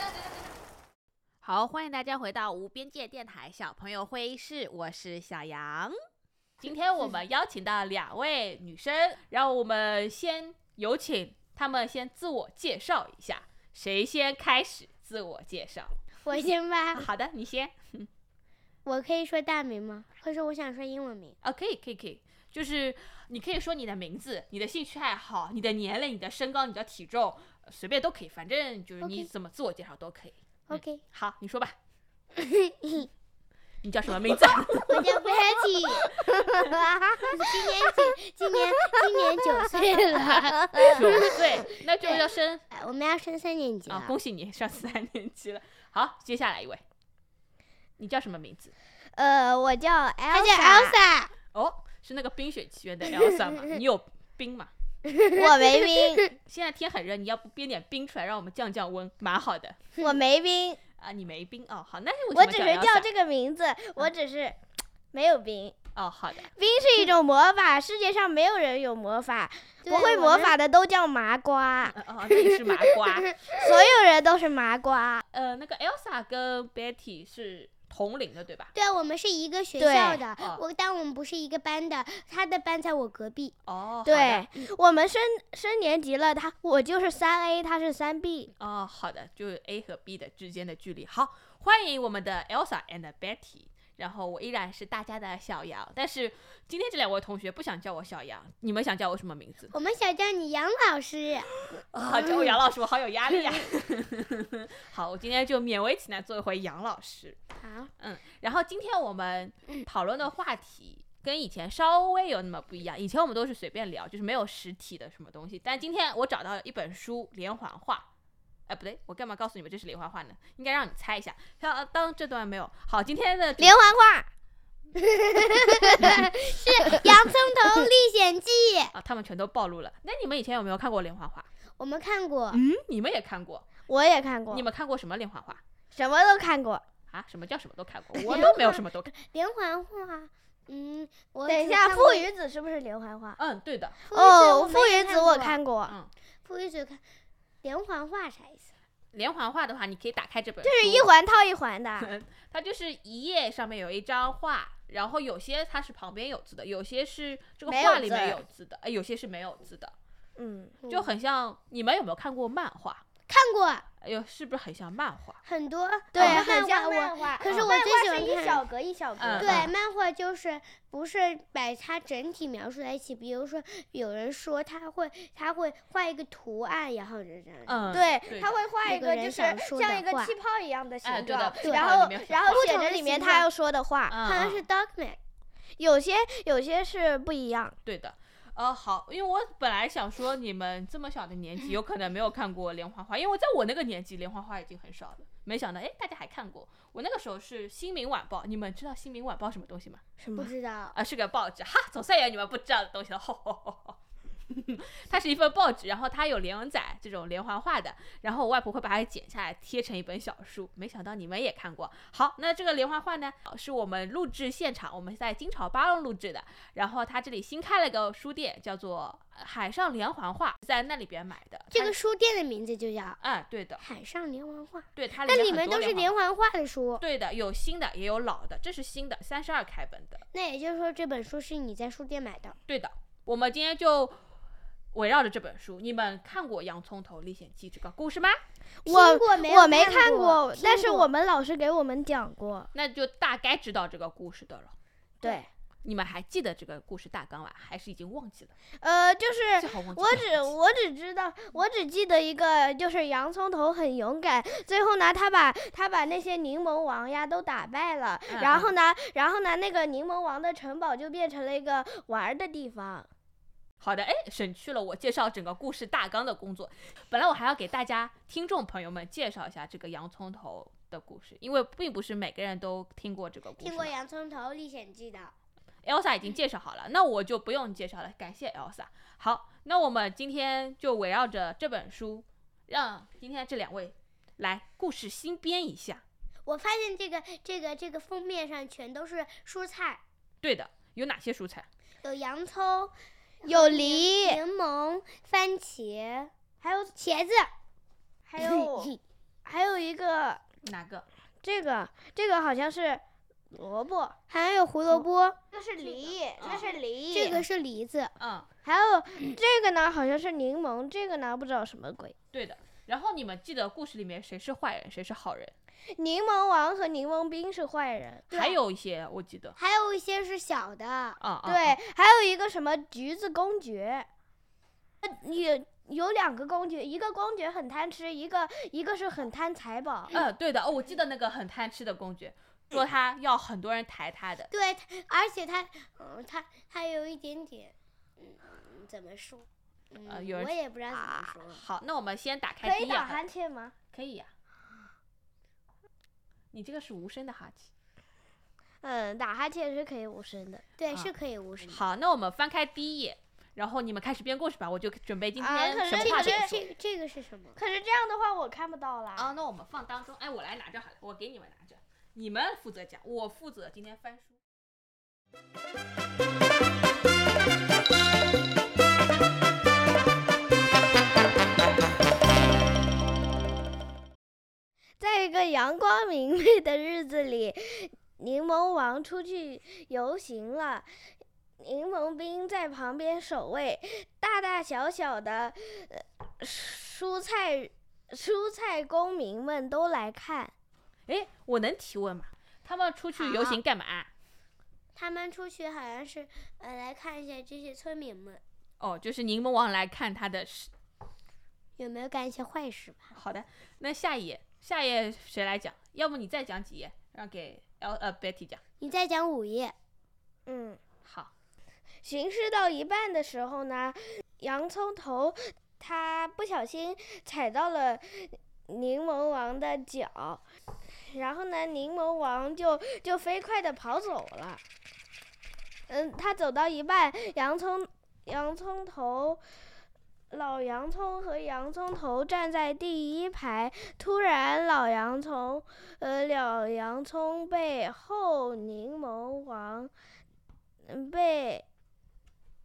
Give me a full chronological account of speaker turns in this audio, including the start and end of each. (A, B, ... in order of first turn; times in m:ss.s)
0:01.4-0:06.0 A
0:06.6-0:16.0 A
0:16.2-0:17.1 B
0:16.9-0:18.1 A
0:18.8-0:21.4 B
0:21.4-0:31.8 A
0:30.7-0:31.0 B
0:32.4-0:33.1 B
0:33.8-0:35.1 A
0:34.8-0:36.2 B
0:36.3-0:36.7 C
0:37.3-0:44.1 B
0:40.5-0:41.2 C
0:40.8-0:42.6 A
0:43.9-0:46.8 A
0:48.0-0:48.7 A
0:49.2-0:51.0 C
0:50.3-0:51.3 B
0:51.5-0:54.7 A
0:55.3-0:55.7 B
0:55.4-0:56.3 C
0:56.4-0:59.8 A
1:00.0-1:00.8 C
1:01.0-1:03.1 A
1:02.3-1:04.6 C
1:05.1-1:05.8 C
1:06.0-1:06.5 A
1:06.6-1:12.4 C
1:09.8-1:10.6 B
1:11.9-1:13.4 A
1:13.5-1:15.2 C
1:15.3-1:18.7 A
1:18.8-1:23.6 B
1:19.8-1:20.2 C
1:23.7-1:24.5 A
1:24.1-1:28.5 C
1:28.6-1:39.7 A
1:39.7-1:41.5 B
1:41.7-1:47.4 A
1:42.1-1:42.5 B
1:47.6-1:47.9 B
1:48.0-1:58.1 A
1:58.7-2:03.8 A
2:03.6-2:04.3 C
2:05.1-2:07.1 C
2:05.5-2:08.9 B
2:08.9-2:11.5 A
2:11.8-2:12.6 B
2:12.5-2:13.7 A
2:13.9-2:14.6 C
2:14.5-2:15.6 A
2:16.0-2:16.8 C
2:17.1-2:19.1 A
2:18.3-2:22.3 B
2:21.5-2:23.4 C
2:23.4-2:24.0 A
2:24.1-2:25.6 B
2:24.1-2:26.0 C
2:25.9-2:26.1 A
2:26.4-2:27.0 B
2:27.6-2:28.7 B
2:29.1-2:31.1 A
2:30.6-2:32.1 C
2:32.0-2:40.0 A
2:37.7-2:38.4 C
2:40.4-2:40.8 C
2:40.9-2:43.0 A
2:43.3-2:43.9 B
2:44.0-2:45.4 A
2:45.4-2:48.6 B
2:46.1-2:49.7 C
2:46.2-2:46.4 A
2:47.4-2:47.7 A
2:49.2-2:49.7 A
2:49.4-2:58.0 B
2:57.6-2:58.6 A
2:57.9-3:04.2 C
2:58.8-3:00.4 B
3:01.0-3:02.6 A
3:01.6-3:03.5 B
3:04.1-3:04.6 A
3:04.2-3:05.2 B
3:05.8-3:07.8 C
3:07.8-3:20.0 A
3:20.2-3:20.5 C
3:20.4-3:21.0 B
3:20.9-3:42.0 A
3:41.7-3:43.2 B
3:43.2-3:43.8 A
3:43.8-3:47.0 B
3:45.0-3:46.1 A
3:47.0-3:50.2 A
3:50.3-3:52.6 B
3:52.7-3:54.2 A
3:54.9-3:58.4 A
3:58.8-4:01.1 B
3:58.8-4:02.7 C
4:02.7-4:04.7 A
4:05.2-4:05.5 C
4:05.8-4:08.5 A
4:08.8-4:23.1 C
4:09.6-4:10.5 A
4:18.3-4:18.7 A
4:23.8-4:33.9 A
4:33.6-4:35.3 B
4:35.8-4:46.0 A
4:46.5-4:50.0 B
4:50.4-4:51.7 A
4:52.0-4:56.3 B
4:53.5-4:54.4 C
4:56.6-4:57.0 C
4:57.0-4:57.5 B
4:58.3-4:58.9 C
4:58.4-4:59.0 B
4:59.4-5:00.4 C
5:00.6-5:01.1 A
5:01.4-5:04.2 C
5:04.3-5:05.4 B
5:04.9-5:07.4 C
5:06.4-5:06.8 A
5:07.1-5:08.1 B
5:08.2-5:08.5 A
5:08.6-5:12.2 C
5:12.3-5:15.5 A
5:16.0-5:18.5 C
5:18.3-5:19.6 A
5:19.6-5:21.2 B
5:21.2-5:21.8 A
5:21.4-5:24.1 C
5:25.0-5:30.2 C
5:30.1-5:34.5 A
5:34.5-5:41.6 B
5:40.1-5:40.5 A
5:41.5-5:43.2 A
5:42.6-5:43.8 C
5:43.9-5:44.3 A
5:46.5-5:47.7 A
5:48.8-5:50.6 C
5:50.8-5:51.8 B
5:51.6-5:56.6 A
5:55.4-5:56.5 C
5:56.0-5:57.6 B
5:57.6-5:59.3 C
5:59.2-6:04.4 A
6:15.0-6:20.9 C
6:21.6-6:30.5 C
6:31.1-6:34.1 A
6:33.2-6:33.6 B
6:35.0-6:38.4 B
6:38.8-6:40.7 A
6:41.8-6:43.1 B
6:43.1-6:48.6 A
6:48.8-6:49.8 B
6:50.5-6:50.8 C
6:51.0-6:51.3 A
6:52.0-7:00.4 C
7:01.0-7:04.6 C
7:05.9-7:09.4 C
7:10.3-7:19.9 C
7:20.9-7:21.6 C